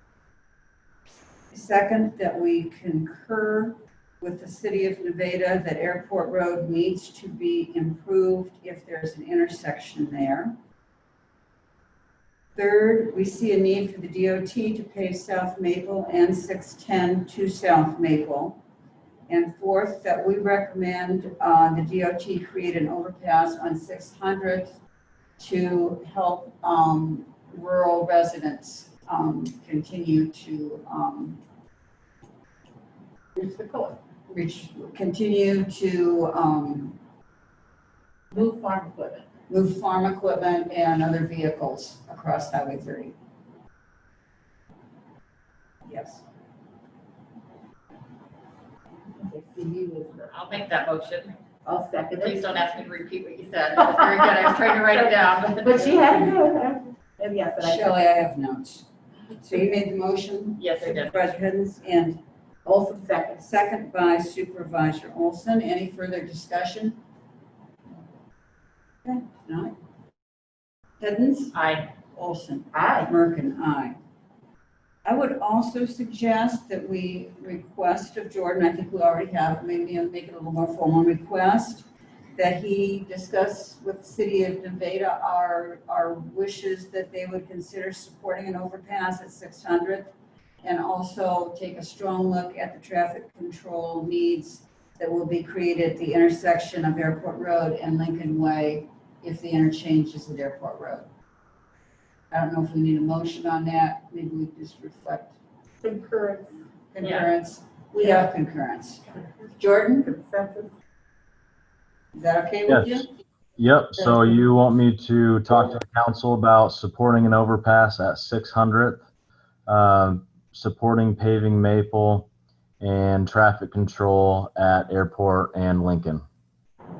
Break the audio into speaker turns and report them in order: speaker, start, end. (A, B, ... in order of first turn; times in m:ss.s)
0:01.5-0:10.5 A
0:12.5-0:18.6 A
0:19.3-0:24.8 A
0:25.4-0:31.4 A
0:33.3-0:34.0 B
0:34.3-0:37.0 A
0:38.3-0:39.2 B
0:39.5-0:43.1 A
0:45.8-0:46.2 A
0:49.0-0:50.3 B
0:50.3-0:51.4 C
0:51.6-0:52.5 B
0:52.2-0:56.3 C
0:54.0-0:54.3 B
0:55.6-0:57.9 B
0:57.6-1:02.2 A
1:00.6-1:01.1 C
1:02.6-1:03.4 B
1:03.4-1:07.0 A
1:09.0-1:09.7 A
1:11.0-1:11.6 A
1:11.5-1:11.9 C
1:12.1-1:14.0 A
1:12.7-1:13.1 B
1:15.0-1:41.1 A
1:42.3-1:45.4 A
1:45.8-1:46.5 B
1:46.9-1:50.1 A
1:47.0-1:47.2 C
1:50.0-1:50.7 B
1:52.1-1:53.1 A
1:52.7-1:53.0 D
1:53.6-1:59.0 D
1:54.0-1:54.2 A
1:59.7-2:02.3 D
2:02.8-2:06.2 D